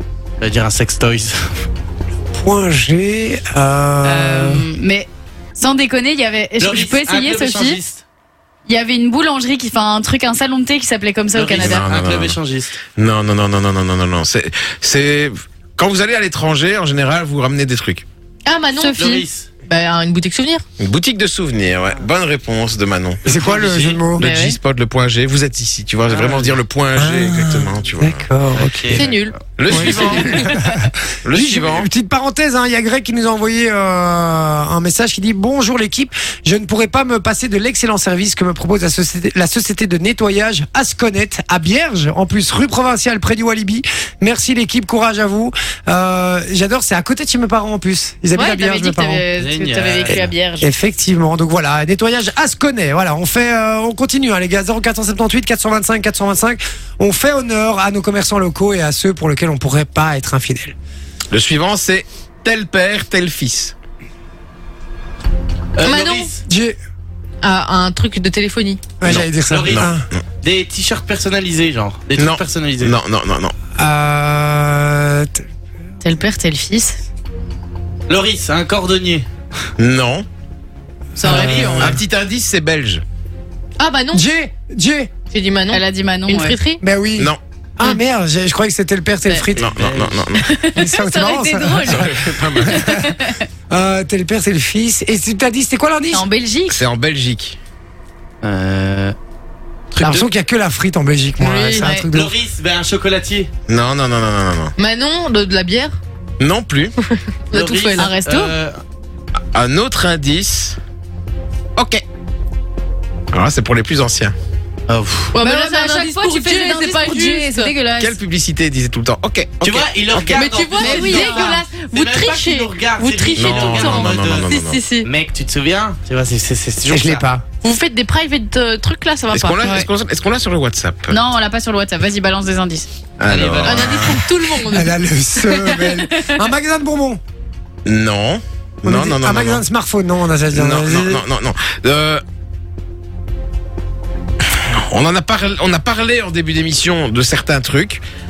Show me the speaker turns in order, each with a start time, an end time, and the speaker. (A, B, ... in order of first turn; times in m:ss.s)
0:00.4-0:01.5 A
0:02.4-0:04.7 B
0:04.0-0:07.8 C
0:06.6-0:08.0 A
0:08.7-0:11.8 C
0:11.3-0:12.7 A
0:11.6-0:12.4 D
0:13.0-0:18.0 D
0:18.5-0:20.6 E
0:18.9-0:19.5 A
0:20.8-0:23.2 D
0:23.2-0:24.3 B
0:23.3-0:24.0 A
0:24.2-0:28.2 D
0:24.2-0:24.6 E
0:26.1-0:26.6 A
0:27.0-0:29.1 B
0:28.5-0:29.8 A
0:28.9-0:29.4 E
0:29.6-0:30.6 D
0:29.7-0:49.2 B
0:29.9-0:30.3 E
0:31.2-0:31.9 D
0:48.4-0:50.7 C
0:49.4-0:50.3 A
0:50.6-1:00.8 B
1:01.3-1:03.8 D
1:05.8-1:06.4 A
1:05.8-1:06.3 E
1:06.5-1:06.8 B
1:07.4-1:08.9 E
1:09.0-1:10.1 B
1:09.0-1:10.2 D
1:09.4-1:09.9 A
1:10.4-1:13.0 A
1:12.2-1:13.6 D
1:13.8-1:15.4 B
1:16.0-1:17.0 E
1:18.1-1:19.3 A
1:19.8-1:20.3 D
1:21.2-1:22.0 B
1:21.2-1:22.0 E
1:21.2-1:21.8 A
1:21.7-1:23.0 D
1:23.8-1:24.2 E
1:24.1-1:25.1 B
1:25.3-1:26.8 E
1:25.7-1:26.6 C
1:26.8-1:36.3 B
1:29.6-1:30.5 D
1:29.8-1:30.1 A
1:30.4-1:32.0 C
1:31.9-1:33.0 D
1:32.6-1:33.4 C
1:36.1-1:36.8 C
1:36.7-1:37.6 D
1:38.4-1:39.2 A
1:40.0-1:40.2 A
1:40.0-1:42.4 B
1:41.4-1:41.9 E
1:41.8-1:42.0 C
1:42.1-1:43.5 A
1:43.7-1:44.7 D
1:44.8-1:46.0 E
1:46.4-1:46.9 D
1:47.5-1:48.1 E
1:47.5-1:48.8 A
1:48.0-1:48.5 C
1:49.5-1:50.8 D
1:51.8-1:52.0 D
1:53.3-1:54.4 D
1:54.9-1:55.4 A
1:55.3-1:57.7 E
1:55.4-1:58.2 C
1:58.0-2:00.5 D
1:59.6-2:04.5 A
2:00.3-2:05.1 E
2:00.8-2:01.7 C
2:03.4-2:04.8 D
2:05.0-2:07.2 A
2:06.9-2:07.5 B
2:07.6-2:09.6 E
2:09.3-2:11.2 D
2:09.6-2:09.9 C
2:11.1-2:12.9 C
2:13.2-2:14.3 D
2:13.3-2:14.0 A
2:13.6-2:15.0 E
2:14.7-2:17.2 B
2:15.5-2:16.4 C
2:17.8-2:19.6 D
2:18.8-2:21.2 B
2:20.5-2:22.2 D
2:24.6-2:28.0 D